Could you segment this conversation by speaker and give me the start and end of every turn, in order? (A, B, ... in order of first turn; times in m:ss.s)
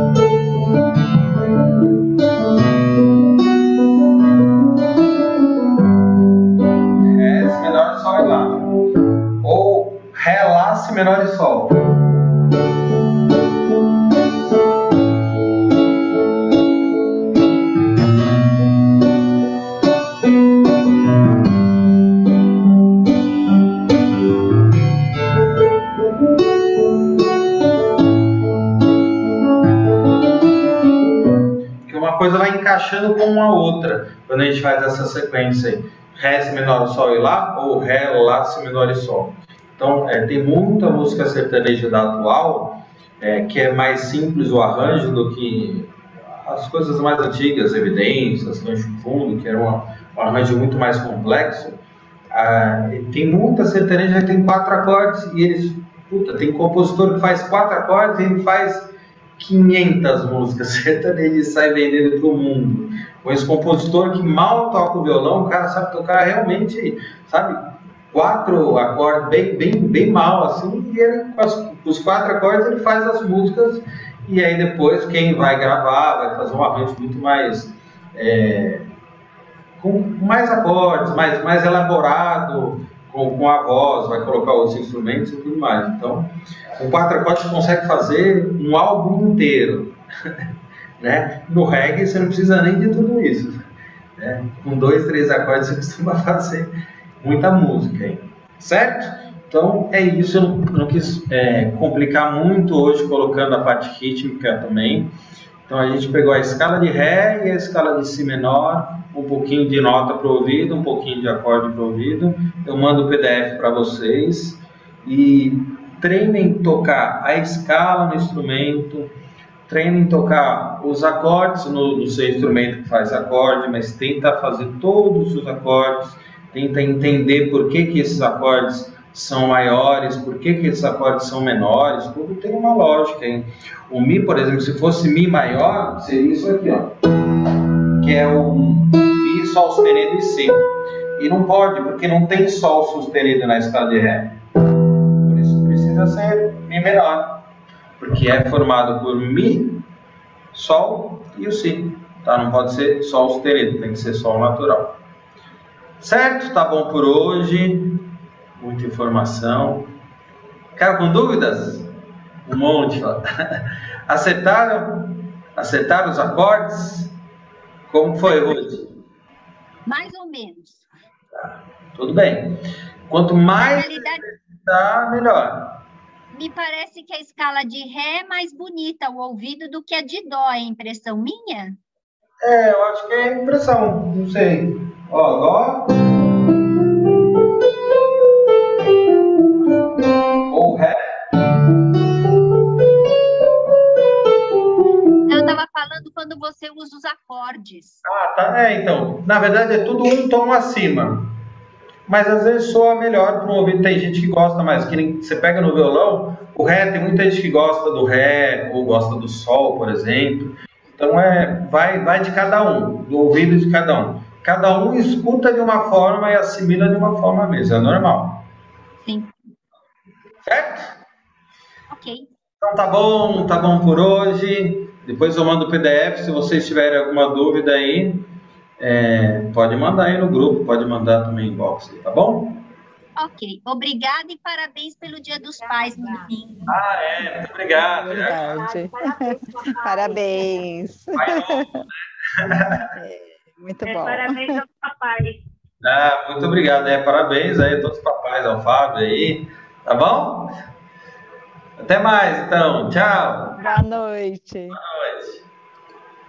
0:07.0-0:08.7 A
0:09.4-0:11.8 A
0:31.9-0:51.8 A
0:52.3-1:07.6 A
1:08.1-1:18.9 A
1:19.8-1:30.3 A
1:31.0-1:33.7 A
1:34.2-1:45.1 A
1:45.7-1:59.1 A
1:59.7-2:16.9 A
2:18.0-2:24.3 A
2:25.2-2:27.4 A
2:28.0-2:29.8 A
2:30.5-2:35.0 A
2:36.0-2:38.0 A
2:38.6-2:39.9 A
2:40.8-2:41.9 A
2:42.5-2:47.1 A
2:47.9-2:48.9 A
2:48.3-2:48.5 B
2:49.9-2:50.8 B
2:51.4-2:55.8 A
2:53.6-2:54.2 B
2:56.3-3:01.8 B
3:02.4-3:06.0 A
3:10.5-3:11.0 A
3:15.3-3:18.0 B
3:18.0-3:21.3 A
3:22.1-3:38.4 A
3:39.0-3:39.3 B
3:40.5-3:41.0 A
3:41.9-3:42.3 B
3:42.6-3:48.2 A
3:48.8-3:52.6 A
3:53.2-3:56.7 B
3:55.6-3:56.3 C
3:56.7-3:58.6 A
3:58.0-4:01.8 D
3:58.2-4:00.7 C
4:01.2-4:02.9 A
4:02.9-4:04.6 D
4:03.8-4:05.4 C
4:05.8-4:10.6 A
4:11.8-4:13.6 A
4:13.6-4:14.8 D
4:14.7-4:15.5 A